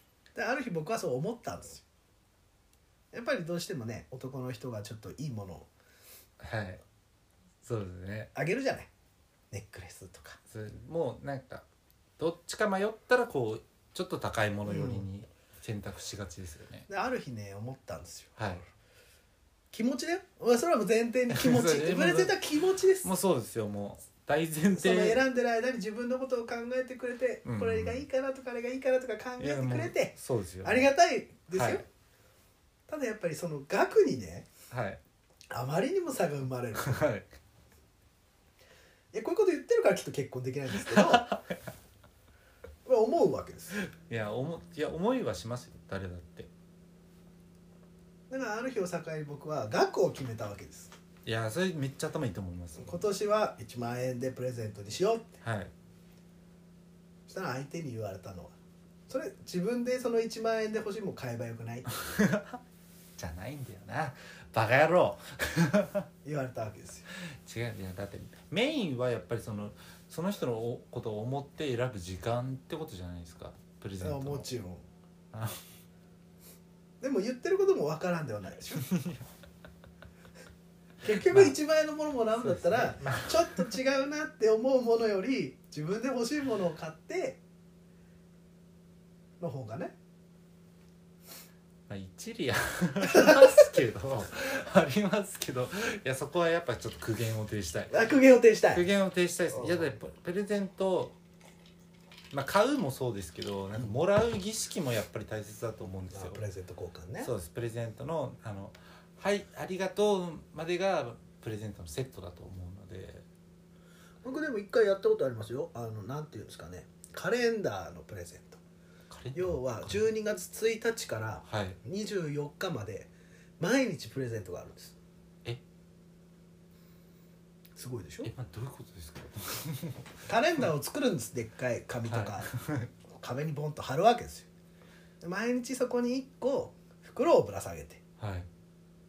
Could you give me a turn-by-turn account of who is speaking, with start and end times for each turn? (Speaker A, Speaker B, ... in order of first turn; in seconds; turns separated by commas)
Speaker A: 0.3-1.8, Speaker A: 3.1-5.7, Speaker B: 6.4-6.8, Speaker B: 7.6-8.3, Speaker A: 8.3-8.9, Speaker A: 9.5-10.4, Speaker B: 10.5-11.7, Speaker B: 12.2-16.9, Speaker A: 14.7-15.1, Speaker A: 16.9-18.5, Speaker B: 18.4-18.6, Speaker A: 19.7-23.1, Speaker B: 21.3-22.4, Speaker B: 23.0-25.2, Speaker A: 24.7-31.9, Speaker B: 27.4-28.0, Speaker B: 29.4-30.9, Speaker B: 31.5-31.8, Speaker A: 32.9-34.5, Speaker B: 34.7-35.0, Speaker A: 35.5-37.0, Speaker B: 36.8-37.3, Speaker A: 39.1-41.3, Speaker B: 40.8-41.6, Speaker A: 42.9-43.8, Speaker B: 43.8-46.5, Speaker A: 48.3-50.9, Speaker B: 51.3-53.0, Speaker A: 52.8-55.3, Speaker B: 55.4-55.7, Speaker A: 57.3-58.5, Speaker A: 59.1-61.9, Speaker B: 61.9-62.6, Speaker B: 63.2-66.1, Speaker A: 66.2-67.1, Speaker B: 67.4-74.5, Speaker A: 74.0-74.9, Speaker B: 75.3-75.6, Speaker A: 77.0-78.9, Speaker B: 78.8-79.2, Speaker A: 81.0-87.4, Speaker B: 81.1-81.5, Speaker B: 82.4-83.7, Speaker A: 89.4-90.0, Speaker B: 91.9-98.0, Speaker A: 93.0-93.6, Speaker A: 97.9-98.9, Speaker B: 98.7-101.2, Speaker A: 99.5-100.0, Speaker B: 102.3-106.4, Speaker A: 106.1-107.3, Speaker B: 107.2-113.2, Speaker A: 114.2-118.6, Speaker B: 119.1-120.1, Speaker A: 119.3-125.0, Speaker B: 121.5-121.8, Speaker A: 127.8-128.3, Speaker B: 128.2-130.2, Speaker A: 130.3-132.5, Speaker B: 132.1-132.9, Speaker A: 133.1-134.5, Speaker A: 135.2-138.0, Speaker B: 138.2-138.5